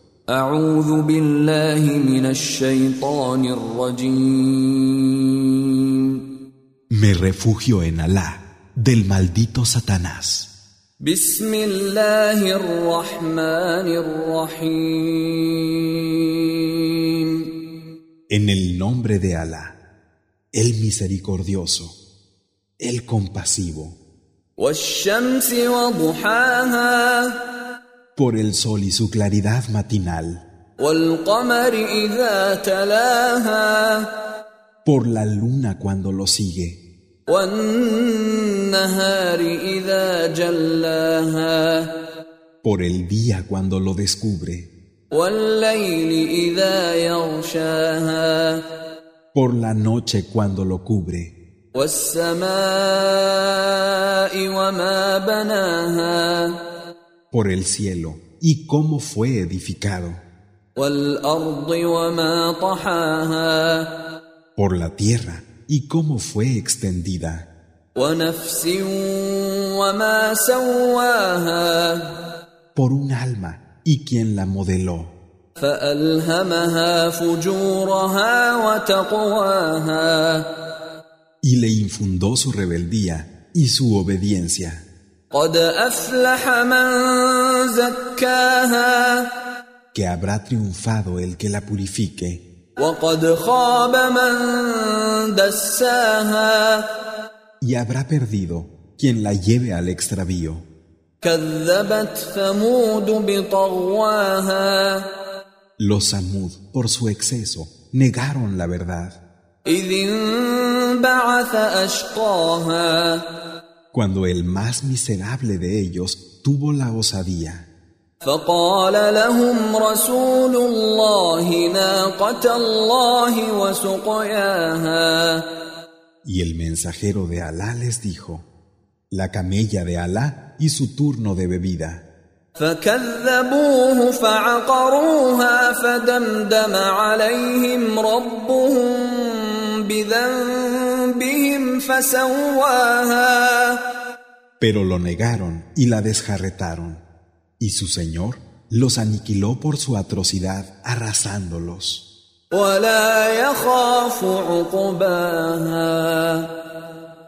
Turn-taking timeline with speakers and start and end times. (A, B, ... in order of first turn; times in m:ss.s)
0:00.3-0:06.2 A
0:06.9-0:10.5 B
0:11.0-0:17.5 A
0:18.3-0:19.8 B
0:20.5-0:22.0 B
0:22.8-0:24.0 B
0:24.6-0:27.4 A
0:28.2-0:30.4 B
0:30.8-0:34.1 A
0:34.8-0:36.8 B
0:37.3-0:42.0 A
0:42.6-0:44.7 B
0:45.1-0:48.6 A
0:49.3-0:51.4 B
0:51.7-0:56.6 A
0:57.3-1:00.2 B
1:00.8-1:04.1 A
1:04.6-1:07.5 B
1:07.9-1:12.2 A
1:12.7-1:15.1 B
1:15.6-1:20.7 A
1:21.4-1:24.8 B
1:25.3-1:29.3 A
1:29.9-1:32.4 B
1:32.8-1:36.9 A
1:37.6-1:40.7 B
1:41.2-1:45.1 A
1:45.8-1:49.2 B
1:49.6-1:53.3 A
1:53.9-1:57.7 B
1:58.2-2:05.5 A
2:06.2-2:08.5 B
2:09.1-2:12.0 B
2:12.6-2:23.8 A
2:24.6-2:27.0 B
2:27.6-2:32.0 B
2:32.5-2:36.7 A